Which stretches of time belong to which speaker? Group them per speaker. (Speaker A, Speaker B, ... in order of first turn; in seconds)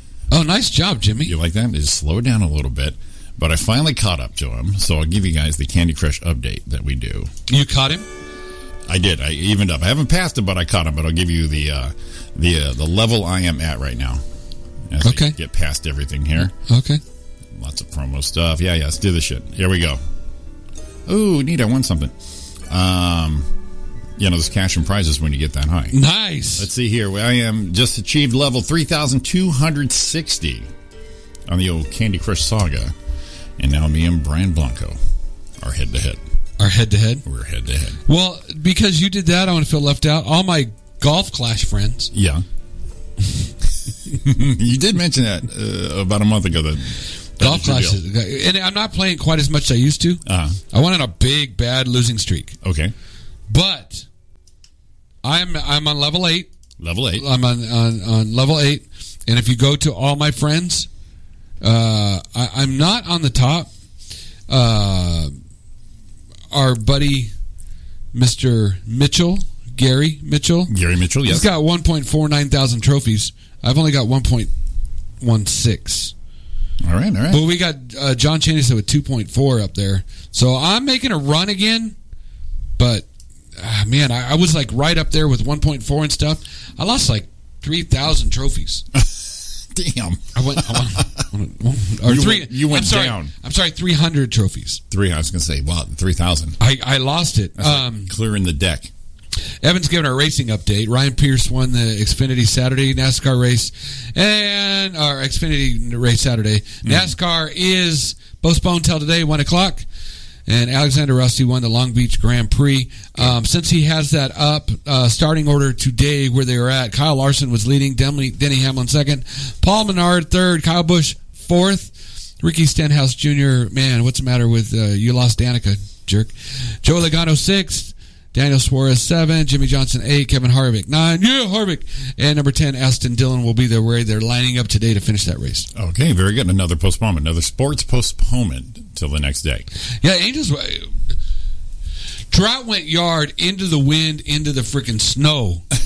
Speaker A: 0.3-1.3, 7.5-8.1, 15.0-15.3, 16.5-17.0, 25.9-26.7, 36.6-37.2, 38.1-42.1, 47.4-52.5, 53.5-54.0, 55.2-56.5, 57.1-60.9, 61.6-63.7, 64.5-65.3, 66.5-67.3, 68.1-70.7, 71.3-74.5, 75.2-76.1, 77.3-81.9, 82.8-88.8, 90.3-94.8, 96.6-98.1, 99.6-109.8, 110.5-135.7, 140.0-140.9, 142.3-145.7
Speaker B: 1.2-7.3, 8.9-14.2, 14.9-16.5, 17.5-20.0, 21.1-22.1, 22.7-23.5, 24.2-26.0, 26.6-30.7, 31.5-32.9, 33.6-35.0, 35.6-36.2, 37.2-38.0, 42.1-42.4, 44.1-48.0, 50.2-50.6, 52.6-52.9, 56.8-57.2, 70.7-71.5, 76.8-77.5, 88.9-91.2, 92.0-93.3, 94.9-96.6, 97.6-98.9, 106.8-107.1, 135.7-139.7